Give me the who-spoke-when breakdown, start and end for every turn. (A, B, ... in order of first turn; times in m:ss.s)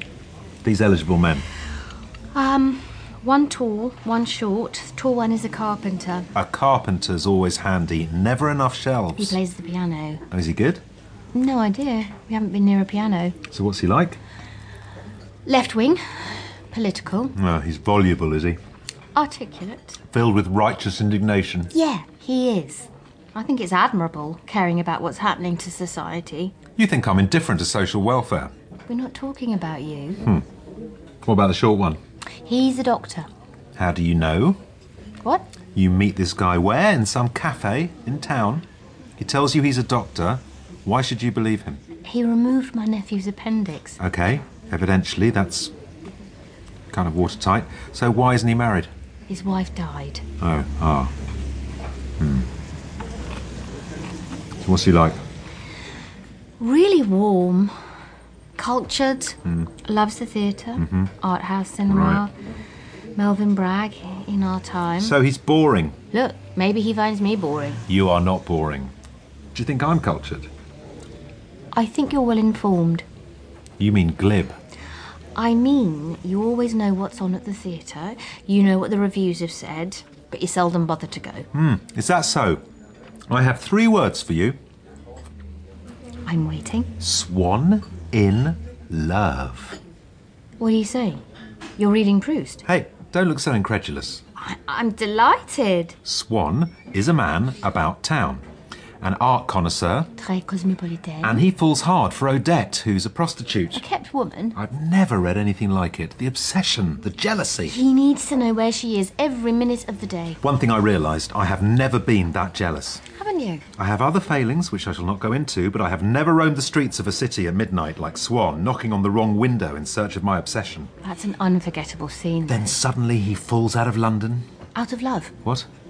0:00.6-0:01.5 A
0:02.3-0:06.3 B
0:06.3-0:09.4 A
0:09.2-0:10.2 B
0:10.3-0:10.8 A
0:11.3-0:13.4 B
0:13.5-0:14.2 A
0:15.4-0:17.3 B
0:17.3-0:18.6 A
0:19.2-0:20.0 B
0:20.1-0:21.7 A
0:21.7-0:26.5 B
0:26.8-0:28.5 A
0:28.9-0:30.2 B
0:31.2-0:32.0 A
0:32.4-0:33.3 B
0:33.8-0:34.6 A
0:35.8-0:38.6 A
0:39.2-0:41.8 A
0:42.0-0:44.0 B
0:44.0-0:45.7 A
0:46.9-0:48.9 A
0:49.3-0:50.2 B
0:50.4-0:51.1 A
0:52.2-0:52.5 A
0:54.6-0:55.2 A
0:56.6-0:57.8 B
0:58.6-1:02.3 B
1:00.8-1:01.1 A
1:01.9-1:02.2 A
1:03.2-1:05.2 B
1:05.0-1:06.0 A
1:06.1-1:07.8 B
1:07.9-1:08.9 A
1:09.6-1:10.5 A
1:11.7-1:13.0 B
1:13.8-1:14.6 A
1:15.3-1:21.5 B
1:21.5-1:22.6 A
1:23.3-1:24.6 A
1:26.3-1:26.9 B
1:27.0-1:29.8 A
1:30.6-1:31.2 B
1:31.8-1:32.6 B
1:32.7-1:34.2 A
1:34.4-1:36.0 B
1:36.0-1:38.4 A
1:39.0-1:40.1 A
1:40.2-1:41.4 B
1:41.2-1:43.8 A
1:43.7-1:44.6 B
1:44.6-1:47.8 A
1:47.7-1:50.4 B
1:50.4-1:53.0 A
1:53.1-1:53.6 B
1:53.8-2:00.9 A
2:01.0-2:02.8 B
2:02.5-2:04.5 A
2:04.8-2:05.3 B